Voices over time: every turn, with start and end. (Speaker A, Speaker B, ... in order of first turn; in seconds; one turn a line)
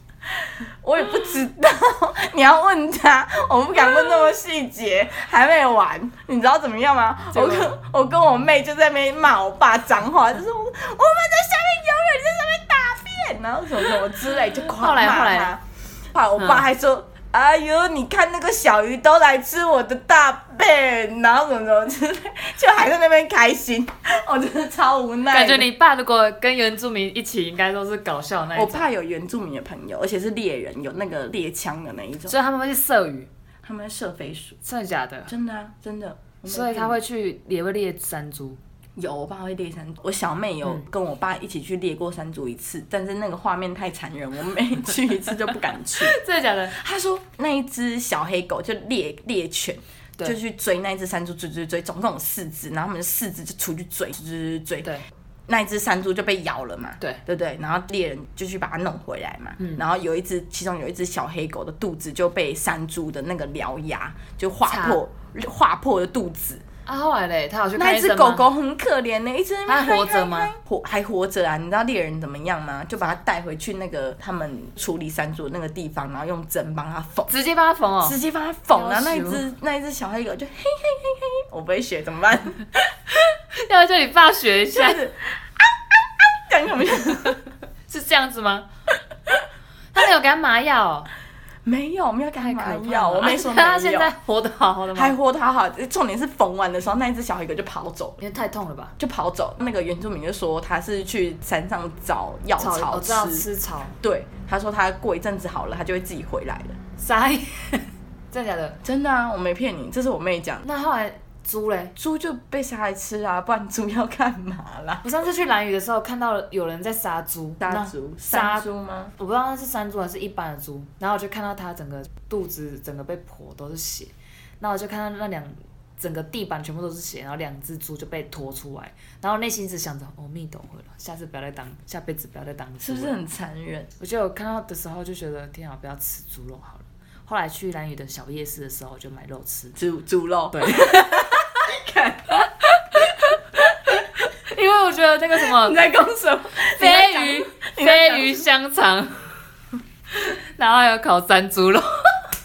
Speaker A: 0.4-25.7
Speaker B: 7.3-7.7
Speaker B: 14.8-15.6
Speaker B: 25.3-28.9
Speaker A: 28.5-32.4
Speaker B: 32.3-33.3
Speaker A: 33.6-34.6
Speaker B: 34.6-35.3
Speaker A: 35.2-37.0
Speaker B: 36.5-38.6
Speaker A: 39.0-46.2
Speaker B: 46.0-46.8
Speaker A: 46.7-54.9
Speaker A: 55.5-66.6
Speaker B: 64.7-65.0
Speaker B: 66.8-68.5
Speaker A: 67.8-77.3
Speaker B: 69.7-70.5
Speaker B: 77.3-78.2
Speaker A: 78.0-82.8
Speaker B: 78.7-79.4
Speaker B: 83.2-85.0
Speaker A: 84.7-87.4
Speaker B: 87.9-88.7
Speaker B: 89.9-91.1
Speaker A: 91.6-94.1
Speaker B: 92.4-95.2
Speaker A: 94.9-98.2
Speaker B: 98.2-98.9
Speaker A: 99.0-103.5
Speaker B: 102.6-104.0
Speaker A: 104.0-106.8
Speaker B: 107.0-108.8
Speaker A: 108.8-110.7
Speaker B: 110.6-111.9
Speaker A: 112.0-115.0
Speaker B: 115.0-118.7
Speaker A: 117.6-119.1
Speaker B: 119.2-133.2
Speaker A: 132.8-133.9
Speaker B: 134.0-139.8
Speaker A: 139.8-143.9
Speaker B: 140.5-141.5
Speaker B: 144.4-145.8
Speaker A: 145.4-148.4
Speaker B: 146.6-149.3
Speaker B: 150.2-152.2